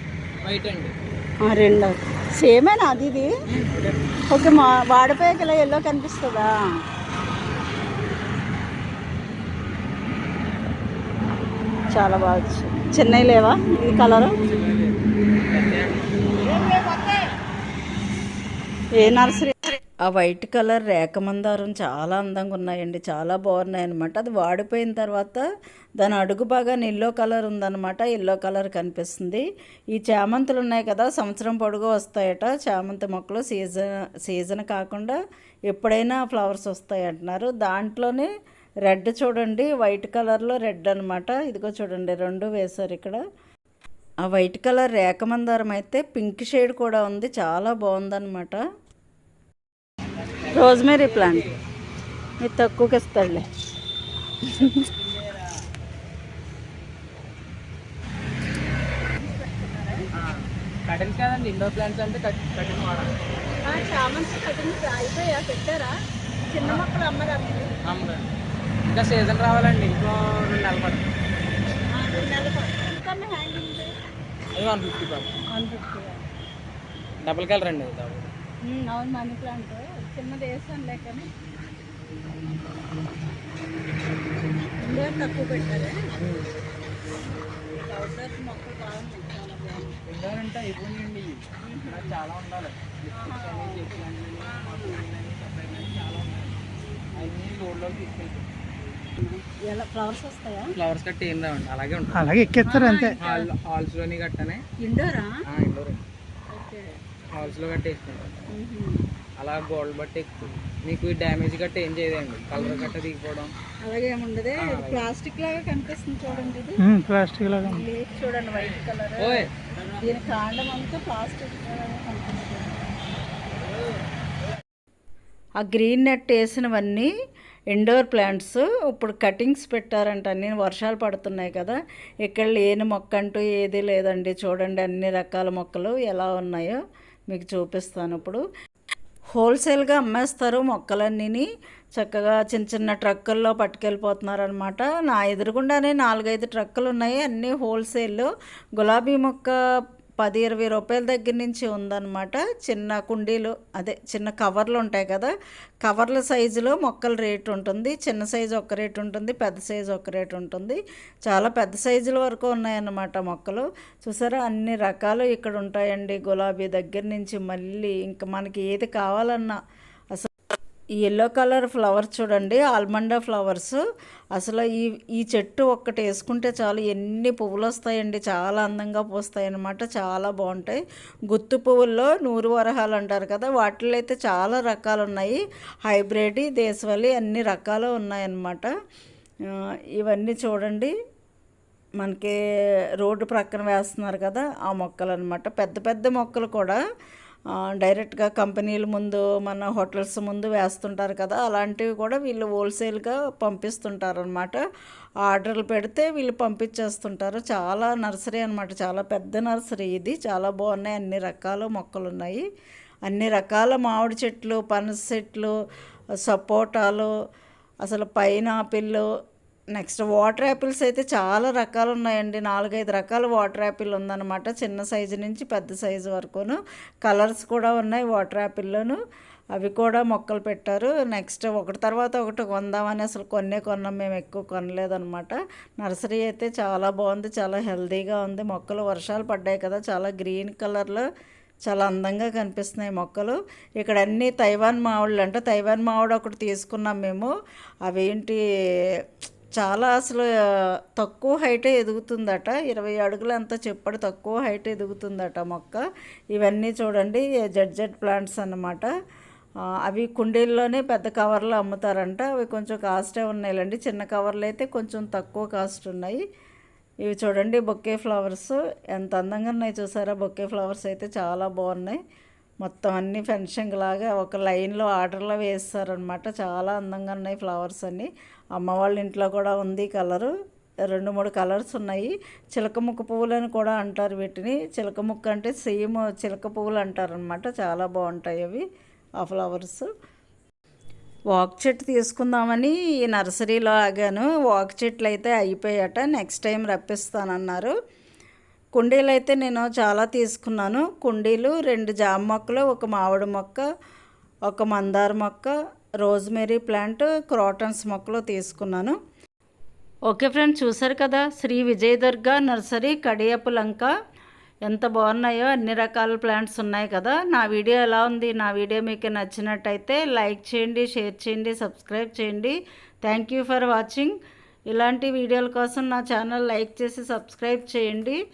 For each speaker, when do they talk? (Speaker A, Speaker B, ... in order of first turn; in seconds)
Speaker A: 0.4-0.9, 3.5-4.0, 14.4-16.8, 50.2-51.6, 54.6-55.5, 60.2-63.1, 67.9-68.3, 68.9-71.1, 74.5-75.4, 77.2-78.3, 86.2-86.5, 90.1-96.6, 97.2-98.5, 100.8-102.5, 103.2-104.6, 105.5-106.0, 107.3-108.5, 109.4-113.5, 114.6-115.1, 119.2-120.0
Speaker B: 1.4-3.3, 4.3-6.5, 11.9-14.3, 19.0-25.4, 26.0-35.2, 35.7-38.3, 38.9-43.2, 44.2-48.6, 50.5-51.4, 52.4-53.5, 54.5-54.9, 59.2-60.1, 63.6-65.9, 66.5-67.7, 71.9-73.9, 75.5-76.2, 78.7-81.3, 84.8-86.0, 87.9-90.0, 91.6-92.1, 93.2-95.0, 99.2-100.7, 102.7-103.5, 104.8-105.3, 106.5-106.9, 108.5-109.0, 112.6-112.9, 113.8-116.8, 117.6-119.5, 120.0-122.8, 125.6-127.1, 127.7-138.4, 139.3-149.6, 150.2-155.3, 155.8-169.6, 171.0-173.8, 174.3-188.7, 190.0-190.9, 192.0-192.3, 193.0-196.8, 197.6-204.6, 205.2-212.4, 213.1-215.5, 216.2-217.1, 217.8-219.1, 219.7-229.0, 229.6-241.0, 241.7-247.3, 247.9-248.4, 249.6-250.3, 251.0-255.8, 256.3-258.9, 259.8-266.2, 267.0-272.0, 272.6-280.3, 280.9-288.6, 289.2-289.9, 291.3-297.7, 298.8-303.6, 304.5-309.0, 310.1-313.9, 314.7-324.1, 324.7-328.2
Speaker C: 102.1-103.2, 116.8-117.8